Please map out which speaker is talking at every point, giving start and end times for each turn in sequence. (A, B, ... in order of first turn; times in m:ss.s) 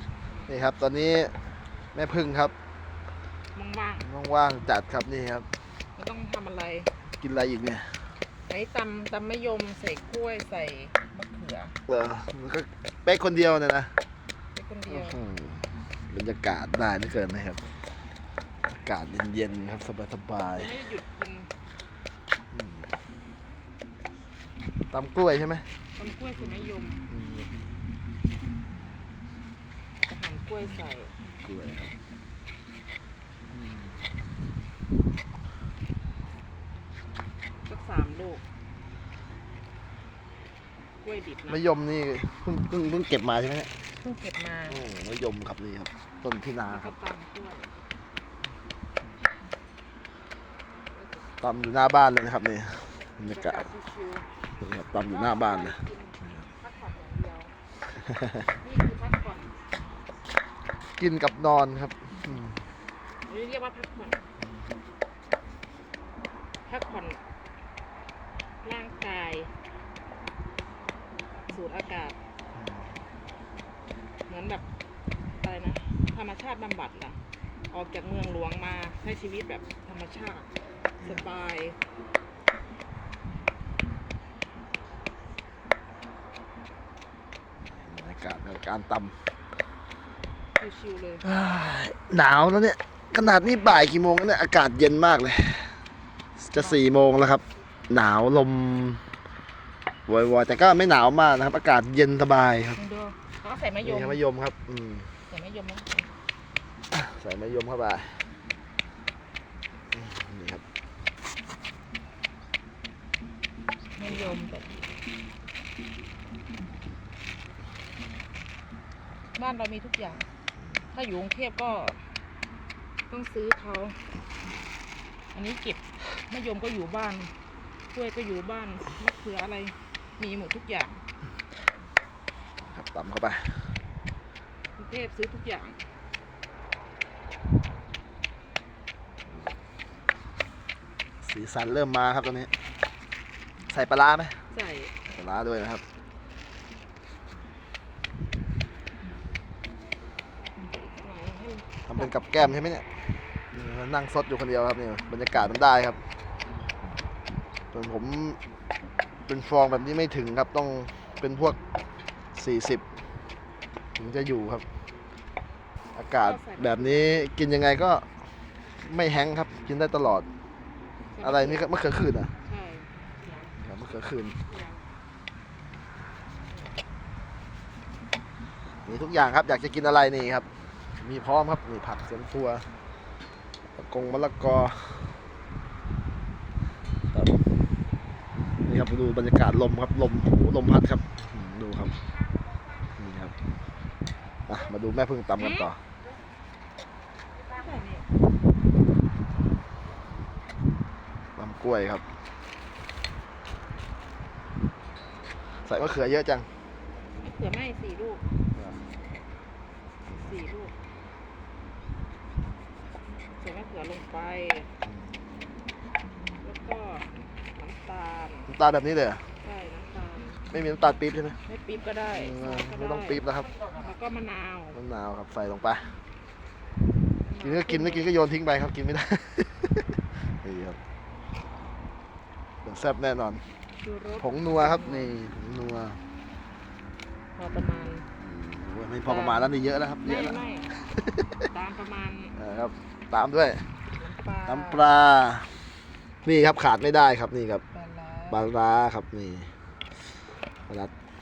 0:00.5-0:01.4 A
0:01.9-0:02.5 A
0:03.5-0:04.1 B
0:04.0-0:05.5 A
0:06.0-0:06.9 B
0:07.2-0:08.0 A
0:08.5-0:11.8 B
0:11.9-0:13.9 A
0:14.5-0:15.2 B
0:14.9-0:17.6 A
0:18.7-0:20.7 A
0:20.5-0:21.5 B
0:22.5-0:22.9 A
0:24.9-0:25.7 A
0:26.0-0:27.1 B
0:27.1-0:27.5 A
0:30.0-0:31.1 B
0:31.4-0:31.9 A
0:33.5-0:33.9 A
0:37.6-0:38.4 B
0:41.0-0:41.6 B
0:41.5-0:43.7 A
0:44.0-0:44.8 B
0:44.7-0:46.9 A
0:46.7-0:47.7 B
0:51.4-0:53.7 A
0:53.2-0:54.3 B
0:54.6-0:55.8 A
0:55.0-0:57.5 B
0:58.0-0:58.5 A
0:58.6-0:59.6 B
1:01.0-1:02.6 A
1:03.3-1:04.2 B
1:06.6-1:07.2 B
1:08.6-1:09.5 B
1:11.5-1:12.2 B
1:12.6-1:12.9 A
1:14.3-1:14.6 B
1:15.3-1:20.5 B
1:21.0-1:21.3 A
1:21.0-1:21.8 B
1:27.7-1:29.2 A
1:30.6-1:31.2 B
1:31.2-1:35.8 A
1:36.4-1:39.0 A
1:36.6-1:36.8 B
1:40.1-1:42.8 A
1:42.7-1:44.2 B
1:43.8-1:45.1 A
1:45.3-1:46.1 B
1:46.9-1:48.2 A
1:49.9-1:50.6 A
1:53.9-1:54.8 B
1:59.3-2:00.3 B
2:00.9-2:02.1 B
2:03.1-2:04.0 B
2:05.3-2:07.3 B
2:07.9-2:11.0 B
2:12.6-2:13.7 A
2:14.8-2:15.8 B
2:21.2-2:22.5 A
2:23.7-2:24.4 A
2:24.5-2:24.9 B
2:25.1-2:25.8 A
2:30.7-2:32.2 B
2:31.9-2:32.8 A
2:33.5-2:36.0 A
2:37.7-2:38.4 A
2:39.3-2:41.6 A
2:42.3-2:42.8 A
2:44.0-2:44.6 A
2:45.9-2:48.1 A
2:46.1-2:47.2 B
2:48.8-2:50.2 A
2:51.1-2:51.7 B
2:51.2-2:52.3 A
2:52.4-2:53.0 B
2:53.6-2:54.4 A
2:58.8-3:00.5 A
3:01.0-3:02.7 A
3:03.7-3:05.1 A
3:07.1-3:07.4 A
3:08.6-3:12.0 A
3:12.9-3:13.3 A
3:14.5-3:15.8 A
3:15.4-3:15.7 B
3:17.4-3:18.0 B
3:21.4-3:22.0 A
3:25.6-3:26.5 A
3:27.2-3:28.2 B
3:28.5-3:28.8 A
3:30.1-3:30.7 B
3:33.4-3:34.7 B
3:36.4-3:38.5 B
3:38.5-3:39.2 A
3:39.4-3:40.5 B
3:40.5-3:41.4 A
3:41.4-3:44.8 B
3:42.1-3:43.5 A
3:44.7-3:46.0 A
3:47.2-3:48.1 B
3:47.4-3:50.8 A
3:52.6-3:53.4 A
3:53.8-3:55.1 B
3:54.2-3:56.0 A
3:57.3-3:58.0 B
3:58.2-4:01.5 A
3:59.0-4:00.7 B
4:01.5-4:02.4 B
4:02.3-4:03.7 A
4:03.9-4:04.9 B
4:04.4-4:05.5 A
4:06.2-4:07.6 A
4:07.7-4:08.4 B
4:08.3-4:09.5 A